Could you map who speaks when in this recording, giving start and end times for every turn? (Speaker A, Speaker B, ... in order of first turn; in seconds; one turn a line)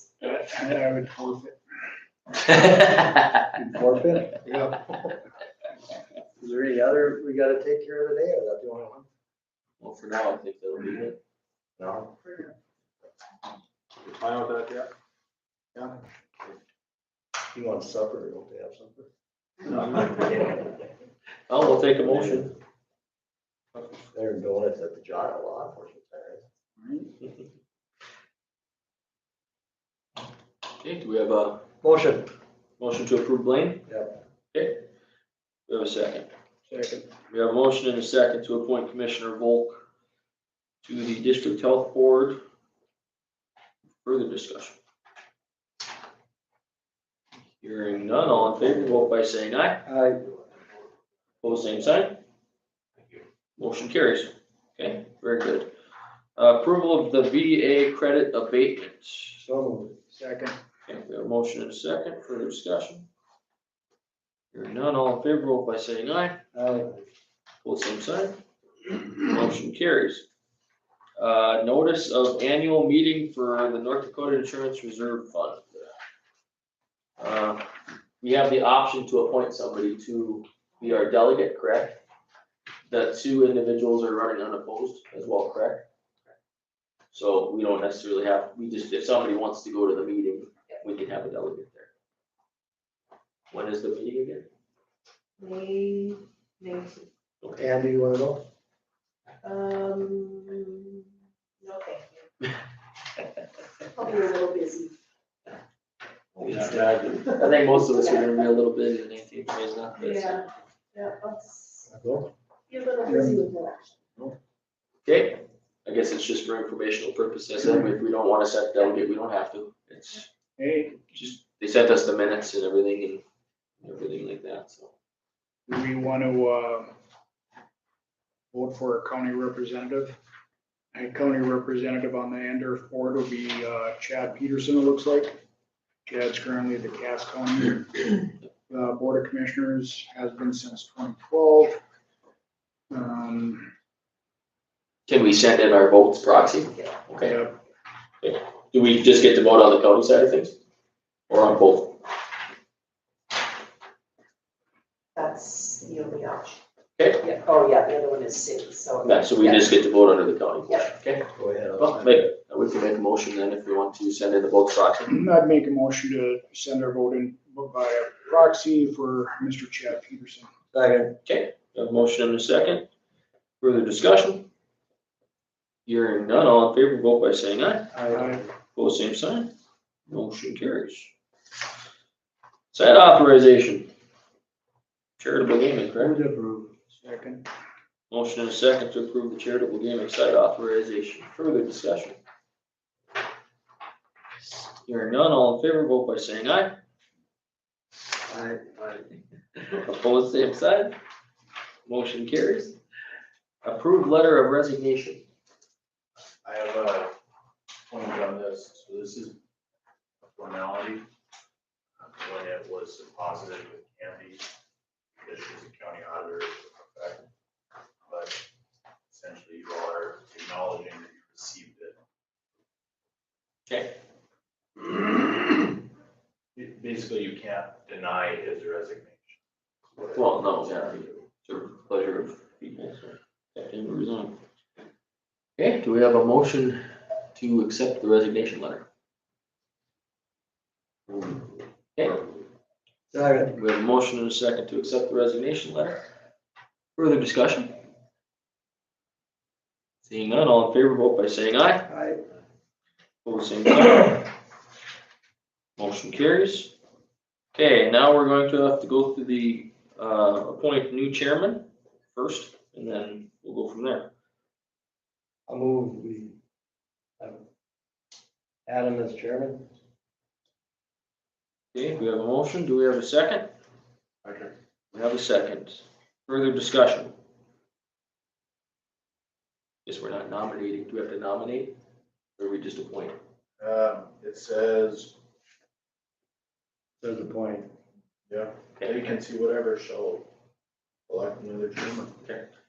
Speaker A: 0.2-1.6
Speaker B: 2.5-3.3
Speaker C: 3.5-4.5
Speaker A: 4.5-4.8
Speaker C: 6.4-9.1
Speaker B: 9.8-11.2
Speaker C: 11.8-12.3
Speaker D: 14.0-14.9
Speaker C: 17.5-19.1
Speaker D: 19.7-20.0
Speaker B: 19.8-20.1
Speaker C: 19.8-20.7
Speaker B: 21.5-22.5
Speaker C: 22.0-22.4
Speaker C: 24.1-26.4
Speaker A: 26.8-27.1
Speaker B: 30.8-31.6
Speaker C: 31.8-32.3
Speaker B: 32.8-33.9
Speaker C: 33.9-34.2
Speaker B: 34.5-34.8
Speaker B: 35.7-36.3
Speaker A: 36.7-37.1
Speaker B: 37.3-39.8
Speaker B: 40.8-42.4
Speaker B: 44.0-44.8
Speaker B: 47.6-49.9
Speaker C: 49.9-50.3
Speaker B: 51.4-52.2
Speaker B: 53.6-55.7
Speaker B: 56.4-59.4
Speaker C: 59.4-60.0
Speaker A: 60.1-60.5
Speaker B: 60.9-63.1
Speaker B: 64.5-66.4
Speaker C: 66.5-66.9
Speaker B: 67.6-68.4
Speaker B: 69.2-70.2
Speaker B: 71.2-75.8
Speaker B: 77.2-77.7
Speaker B: 78.2-82.0
Speaker B: 82.9-85.8
Speaker B: 87.1-91.9
Speaker B: 93.5-94.5
Speaker E: 95.4-97.1
Speaker B: 97.4-97.7
Speaker C: 97.6-98.5
Speaker E: 99.4-102.3
Speaker E: 103.9-104.9
Speaker D: 106.4-107.3
Speaker B: 106.4-110.5
Speaker E: 107.9-108.3
Speaker E: 110.0-110.4
Speaker E: 110.9-111.9
Speaker C: 111.9-112.3
Speaker E: 112.7-113.9
Speaker A: 113.0-113.3
Speaker B: 115.0-120.3
Speaker A: 120.6-121.4
Speaker B: 121.2-123.2
Speaker B: 123.8-124.9
Speaker A: 125.7-126.9
Speaker A: 128.5-130.2
Speaker A: 130.9-135.3
Speaker A: 136.1-141.8
Speaker A: 142.9-143.7
Speaker B: 145.1-147.4
Speaker A: 147.2-147.5
Speaker B: 148.2-150.6
Speaker B: 151.3-152.0
Speaker E: 155.1-156.6
Speaker B: 157.0-157.2
Speaker E: 157.2-159.7
Speaker B: 159.0-165.2
Speaker C: 161.3-162.3
Speaker A: 165.1-170.5
Speaker C: 170.7-171.2
Speaker B: 171.2-172.9
Speaker B: 173.6-174.5
Speaker B: 175.8-177.9
Speaker C: 177.9-178.4
Speaker A: 178.1-178.4
Speaker B: 178.7-179.5
Speaker B: 180.1-181.1
Speaker B: 182.7-183.9
Speaker B: 185.2-186.2
Speaker C: 186.0-186.7
Speaker A: 186.9-187.4
Speaker B: 188.1-192.2
Speaker B: 194.4-196.8
Speaker C: 198.3-199.0
Speaker B: 199.6-200.9
Speaker B: 201.8-202.8
Speaker B: 203.6-205.2
Speaker D: 206.4-207.1
Speaker D: 207.9-209.3
Speaker D: 210.2-211.1
Speaker D: 212.0-214.4
Speaker D: 215.2-217.3
Speaker D: 218.1-218.4
Speaker D: 219.1-221.9
Speaker B: 223.7-223.9
Speaker D: 226.6-229.4
Speaker D: 229.9-231.2
Speaker B: 230.1-234.4
Speaker B: 235.6-238.8
Speaker B: 241.9-242.2
Speaker C: 243.1-243.6
Speaker B: 243.5-246.0
Speaker B: 246.9-247.7
Speaker B: 250.0-251.9
Speaker C: 251.9-252.2
Speaker B: 253.2-254.3
Speaker B: 255.8-256.7
Speaker B: 257.5-264.1
Speaker C: 265.5-266.4
Speaker C: 268.6-269.7
Speaker B: 271.7-273.5
Speaker D: 274.2-274.5
Speaker B: 274.9-277.1
Speaker B: 279.9-281.8
Speaker B: 282.4-283.1
Speaker D: 283.6-285.1
Speaker C: 287.0-287.7
Speaker D: 288.3-290.3
Speaker D: 291.1-292.1